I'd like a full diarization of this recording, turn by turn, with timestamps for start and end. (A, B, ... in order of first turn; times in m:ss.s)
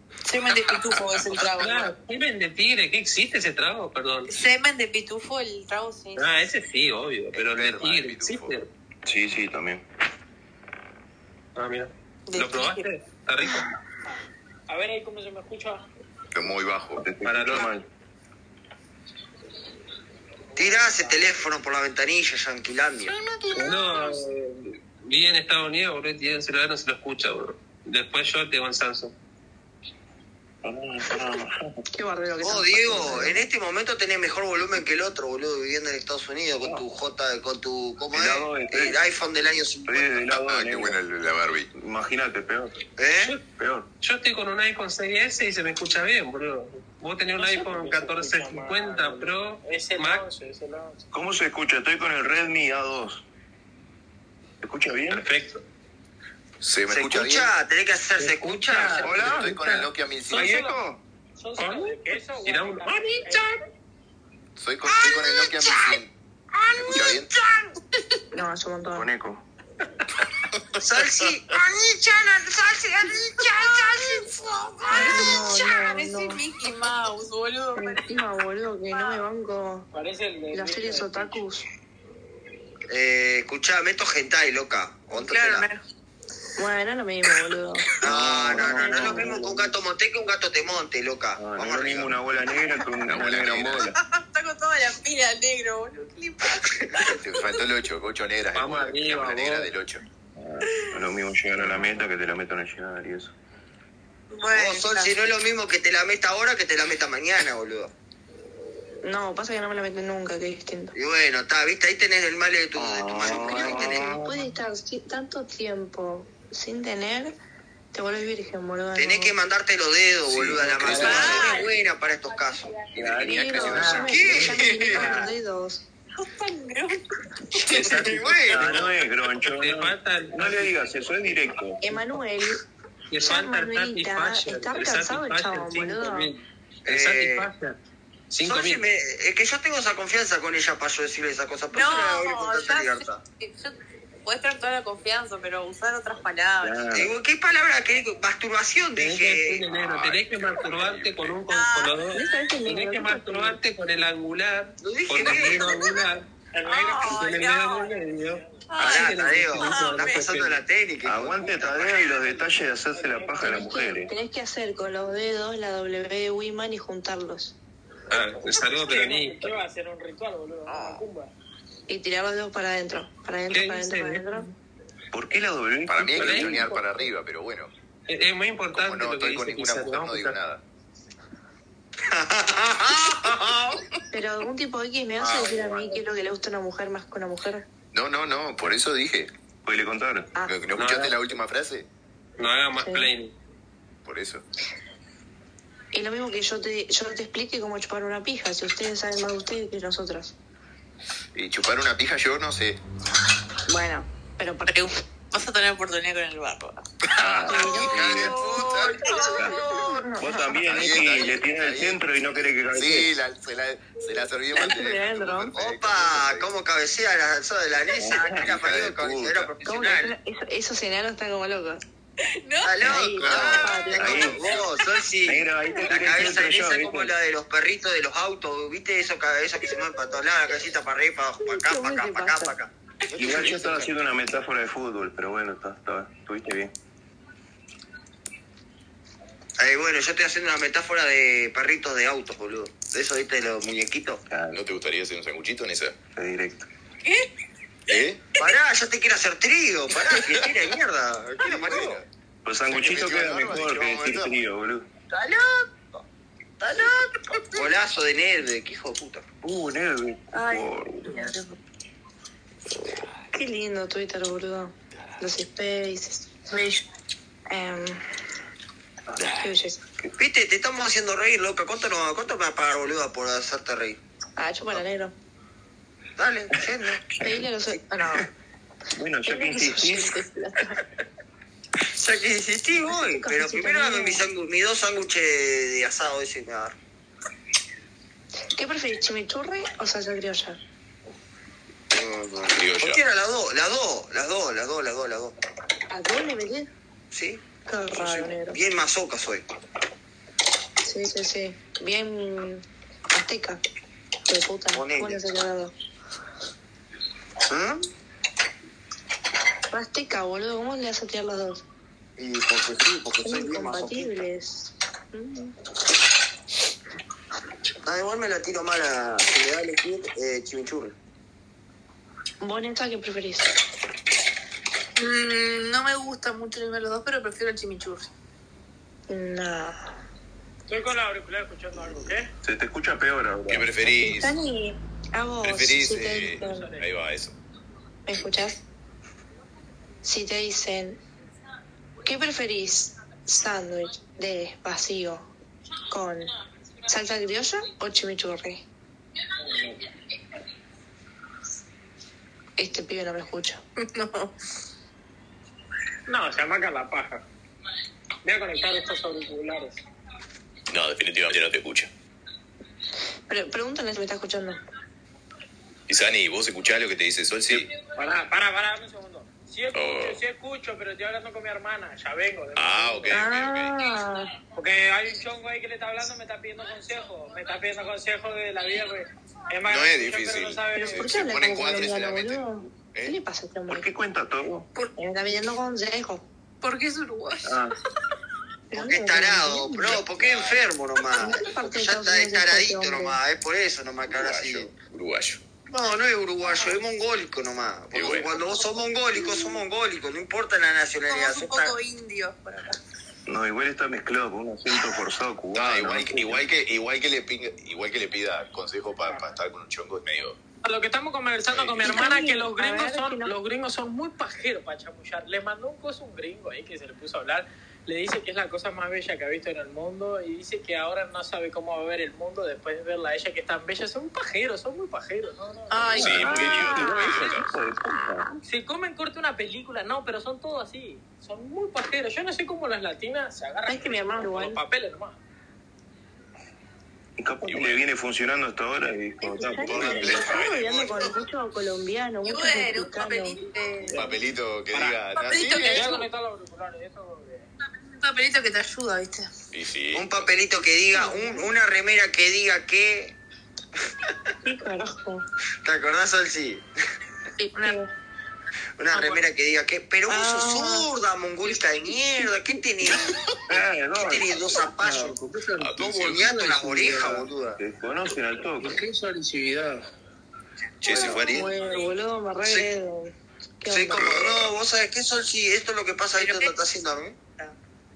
0:00.2-0:01.9 A
0:00.9-0:01.4 B
0:01.4-0:04.3 C
0:04.3-0:06.3 A
0:06.2-0:08.7 C
0:07.3-0:08.6 B
0:09.0-0:09.8 D
0:11.6-0:13.7 C
0:12.3-0:12.9 A
0:14.7-0:15.8 E
0:16.3-0:17.0 B
0:17.0-0:17.8 D
0:17.2-0:17.7 C
0:20.6-0:21.3 E
0:20.6-0:23.2 F
0:23.5-0:29.1 C
0:30.6-0:31.8 D
0:31.9-0:33.4 G
0:32.4-0:40.2 F
0:38.1-0:39.0 D
0:39.8-0:41.0 D
0:40.3-0:41.7 B
0:41.7-0:42.8 D
0:43.0-0:43.4 F
0:43.4-0:43.9 D
0:44.0-0:50.3 C
0:47.4-0:51.0 E
0:51.1-0:53.2 D
0:54.6-0:55.3 D
0:55.1-0:55.6 C
0:56.6-0:57.5 B
0:56.9-0:59.3 F
0:58.2-0:59.9 C
0:59.0-1:00.6 B
0:59.0-0:59.7 D
1:00.3-1:00.8 E
1:00.3-1:01.0 D
1:01.4-1:03.5 E
1:01.6-1:03.6 C
1:04.6-1:06.1 B
1:06.8-1:07.3 B
1:08.3-1:09.1 G
1:08.9-1:09.4 D
1:10.8-1:15.2 F
1:14.9-1:16.4 G
1:14.9-1:18.2 A
1:17.8-1:19.9 G
1:18.9-1:19.2 A
1:19.9-1:21.4 E
1:20.5-1:21.6 G
1:22.9-1:25.6 F
1:25.1-1:25.8 A
1:26.6-1:27.9 G
1:28.0-1:32.1 F
1:28.0-1:29.8 D
1:29.0-1:29.3 G
1:31.4-1:33.9 D
1:33.0-1:33.9 B
1:33.9-1:37.6 A
1:37.0-1:40.0 B
1:38.5-1:39.7 C
1:40.4-1:43.3 D
1:41.6-1:42.0 G
1:44.3-1:45.1 A
1:44.5-1:47.9 F
1:49.0-1:50.9 G
1:50.9-1:54.1 F
1:52.8-1:54.5 D
1:53.4-1:57.3 G
1:57.9-1:59.3 G
1:59.0-2:02.8 F
2:00.3-2:01.5 D
2:00.9-2:03.0 A
2:02.9-2:05.2 D
2:03.2-2:05.8 G
2:03.6-2:05.2 F
2:03.8-2:04.0 C
2:06.2-2:07.0 A
2:07.6-2:08.9 F
2:07.7-2:08.9 C
2:07.9-2:11.8 D
2:09.5-2:11.4 C
2:11.8-2:12.6 G
2:13.1-2:17.8 C
2:13.2-2:16.3 G
2:16.8-2:17.5 F
2:18.3-2:18.8 C
2:18.4-2:23.2 F
2:21.7-2:26.9 A
2:26.6-2:27.0 D
2:26.9-2:29.6 F
2:29.0-2:36.3 C
2:29.9-2:30.2 B
2:30.8-2:31.2 B
2:31.5-2:32.0 A
2:32.1-2:33.6 G
2:34.8-2:35.8 F
2:35.6-2:36.1 A
2:36.5-2:37.4 E
2:36.6-2:38.0 A
2:36.9-2:40.6 C
2:38.0-2:38.6 E
2:38.7-2:40.3 A
2:38.8-2:41.9 F
2:41.0-2:44.1 D
2:42.4-2:43.6 E
2:43.4-2:47.5 G
2:48.1-2:49.6 C
2:48.4-2:51.3 E
2:50.7-2:51.0 B
2:51.9-2:54.5 G
2:53.5-2:54.5 C
2:55.1-2:56.8 D
2:55.9-2:57.7 B
2:56.2-2:56.7 C
2:58.1-3:00.4 C
2:58.7-3:00.6 B
3:02.1-3:03.8 F
3:04.1-3:07.6 G
3:07.9-3:09.3 B
3:09.6-3:10.3 D
3:10.4-3:11.8 B
3:10.7-3:11.2 C
3:12.4-3:13.3 C
3:12.8-3:13.1 G
3:14.0-3:14.4 B
3:15.9-3:20.3 G
3:21.3-3:22.8 B
3:23.7-3:24.9 G
3:24.6-3:26.8 A
3:27.1-3:29.0 B
3:27.2-3:28.3 D
3:27.4-3:28.3 G
3:28.0-3:29.9 F
3:28.2-3:30.0 A
3:29.3-3:29.5 D
3:29.6-3:30.6 G
3:30.2-3:33.1 D
3:30.6-3:32.0 B
3:32.7-3:36.5 B
3:34.5-3:35.5 G
3:35.5-3:40.1 F
3:38.0-3:38.5 D
3:38.2-3:39.5 B
3:39.6-3:41.8 G
3:42.4-3:44.9 A
3:42.6-3:53.9 F
3:42.8-3:44.4 G
3:44.0-3:44.3 D
3:45.2-3:47.1 D
3:51.4-3:52.5 G
3:53.1-3:56.7 D
3:59.6-4:04.2 F
4:04.3-4:04.6 D
4:04.5-4:06.0 B
4:06.2-4:06.7 D
4:07.9-4:08.2 B
4:08.4-4:12.0 F
4:11.4-4:12.0 B
4:12.4-4:14.8 D
4:12.7-4:14.3 B
4:13.5-4:13.9 F
4:15.1-4:16.0 F
4:16.6-4:19.2 F
4:19.4-4:21.2 D
4:20.3-4:21.3 G
4:23.3-4:26.5 G
4:27.5-4:28.0 G
4:29.3-4:29.8 G
4:30.2-4:34.0 F
4:34.4-4:35.1 G
4:36.2-4:37.1 F
4:37.1-4:37.4 D
4:37.2-4:38.3 G
4:38.9-4:40.2 D
4:39.2-4:40.6 G
4:41.9-4:46.7 F
4:42.9-4:44.2 G
4:48.5-4:50.6 G
4:51.9-4:55.3 F
4:52.5-4:53.0 B
4:55.9-4:56.7 G
4:57.1-4:57.4 F
4:57.6-4:58.6 G
4:57.9-4:59.4 F
5:00.8-5:03.6 G
5:04.3-5:05.7 G
5:04.7-5:05.2 F
5:07.5-5:07.8 F
5:09.7-5:11.6 G
5:12.2-5:14.2 F
5:13.2-5:15.6 G
5:17.8-5:20.9 F
5:22.4-5:23.5 G
5:25.0-5:28.1 A
5:29.1-5:29.8 G
5:30.7-5:32.3 E
5:32.4-5:33.8 D
5:33.5-5:34.4 B
5:33.9-5:36.7 G
5:35.4-5:37.3 B
5:36.4-5:36.9 E
5:38.0-5:38.6 G
5:40.0-5:41.0 G
5:42.0-5:45.3 G
5:45.9-5:46.3 G
5:46.9-5:48.6 G
5:49.4-5:49.8 E
5:52.6-5:53.6 G
5:53.8-5:54.3 A
5:56.1-5:57.2 E
5:58.2-5:59.8 E
6:00.7-6:01.9 B
6:03.3-6:04.6 G
6:05.9-6:07.7 B
6:07.9-6:13.2 E
6:09.7-6:10.2 B
6:12.5-6:13.7 B
6:13.1-6:14.3 G
6:14.5-6:21.3 E
6:19.7-6:23.2 B
6:20.7-6:23.8 G
6:23.7-6:24.7 D
6:25.0-6:26.2 G
6:26.6-6:27.6 A
6:27.4-6:27.7 D
6:28.7-6:30.0 G
6:28.7-6:34.7 F
6:29.9-6:30.6 B
6:31.2-6:33.2 G
6:34.1-6:35.4 B
6:35.7-6:41.7 F
6:36.4-6:36.8 A
6:37.9-6:38.3 B
6:39.3-6:39.6 A
6:41.1-6:42.8 A
6:43.3-6:46.4 D
6:45.5-6:50.4 B
6:49.0-6:49.3 E
6:50.6-7:06.5 E
6:51.5-6:52.0 B
6:51.8-6:53.3 G
7:05.7-7:07.4 A
7:06.0-7:07.5 B
7:06.0-7:08.3 D
7:06.2-7:07.4 G
7:07.9-7:08.4 G
7:08.4-7:15.2 E
7:13.7-7:14.6 G
7:17.2-7:20.3 D
7:17.4-7:17.8 B
7:19.2-7:23.4 G
7:19.6-7:21.1 B
7:22.2-7:24.1 A
7:23.9-7:25.9 B
7:24.7-7:25.0 E
7:25.2-7:26.1 A
7:25.6-7:27.5 E
7:27.8-7:29.3 A
7:29.5-7:30.3 B
7:29.9-7:33.1 F
7:30.9-7:31.5 G
7:34.4-7:35.2 G
7:35.6-7:36.6 F
7:37.4-7:37.8 A
7:37.5-7:37.9 G
7:38.8-7:43.2 F
7:40.1-7:40.9 G
7:43.5-7:44.3 D
7:44.0-7:45.2 F
7:44.8-7:47.2 H
7:45.6-7:46.3 B
7:45.9-7:47.6 F
7:47.6-7:48.8 D
7:48.6-7:49.8 H
7:50.8-7:51.9 A
7:50.8-7:51.5 B
7:50.9-7:54.2 G
7:53.7-7:57.2 F
7:54.0-7:54.4 D
7:56.2-7:56.6 A